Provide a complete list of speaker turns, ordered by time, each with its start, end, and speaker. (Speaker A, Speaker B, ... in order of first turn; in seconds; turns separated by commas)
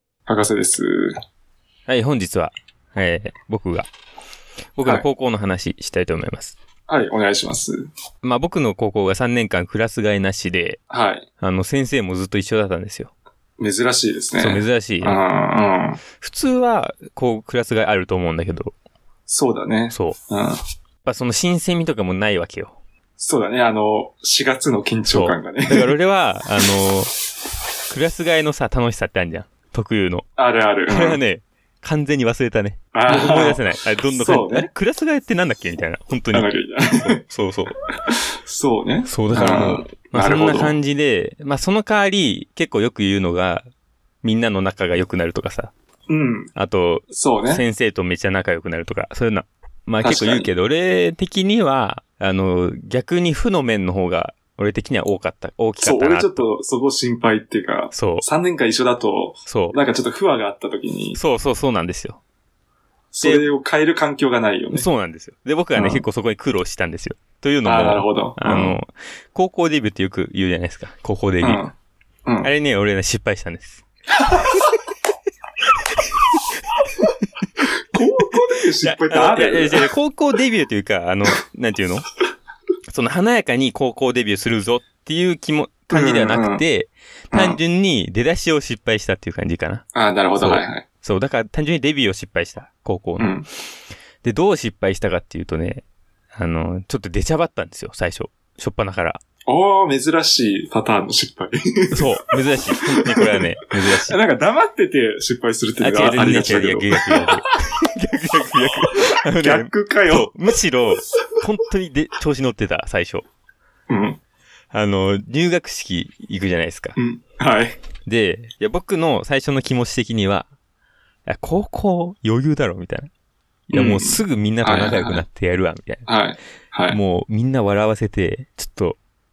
Speaker A: 0.3-1.1, Speaker B: 1.9-3.9, Speaker B: 4.8-6.5, Speaker A: 6.9-7.9, Speaker B: 8.2-10.8, Speaker A: 10.9-11.2, Speaker B: 11.4-13.1, Speaker A: 13.6-16.0, Speaker B: 14.4-15.2, Speaker B: 16.2-18.7, Speaker A: 19.3-20.6, Speaker B: 19.9-20.2, Speaker B: 21.0-22.8, Speaker A: 23.2-25.9, Speaker B: 25.1-27.1, Speaker B: 27.9-30.2, Speaker A: 30.4-31.2, Speaker B: 30.9-37.8, Speaker A: 32.9-34.7, Speaker A: 36.3-37.2, Speaker A: 38.4-40.7, Speaker B: 39.0-43.7, Speaker B: 44.2-45.7, Speaker A: 46.1-46.5, Speaker B: 46.5-56.5, Speaker A: 47.1-47.6, Speaker A: 50.0-50.5, Speaker A: 55.8-61.2, Speaker B: 57.9-58.2, Speaker B: 59.5-59.8, Speaker B: 61.1-62.2, Speaker A: 63.1-64.9, Speaker B: 63.2-63.5, Speaker B: 64.7-71.7, Speaker A: 65.7-66.0, Speaker A: 67.6-68.8, Speaker A: 71.4-71.7, Speaker A: 72.2-72.5, Speaker B: 72.4-73.8, Speaker A: 77.9-79.9, Speaker B: 78.8-82.0, Speaker B: 82.9-89.8, Speaker A: 85.9-86.6, Speaker A: 87.3-87.6, Speaker A: 89.9-90.8, Speaker B: 90.3-93.3, Speaker A: 93.2-93.5, Speaker B: 94.2-99.2, Speaker A: 99.5-102.0, Speaker B: 101.9-104.2, Speaker A: 104.0-107.3, Speaker B: 105.8-113.2, Speaker A: 109.0-110.3, Speaker A: 113.9-114.2, Speaker B: 114.7-117.0, Speaker A: 117.0-117.8, Speaker B: 118.0-120.5, Speaker B: 121.2-123.1, Speaker B: 123.7-126.0, Speaker A: 123.7-125.2, Speaker A: 126.0-127.0, Speaker B: 126.9-129.0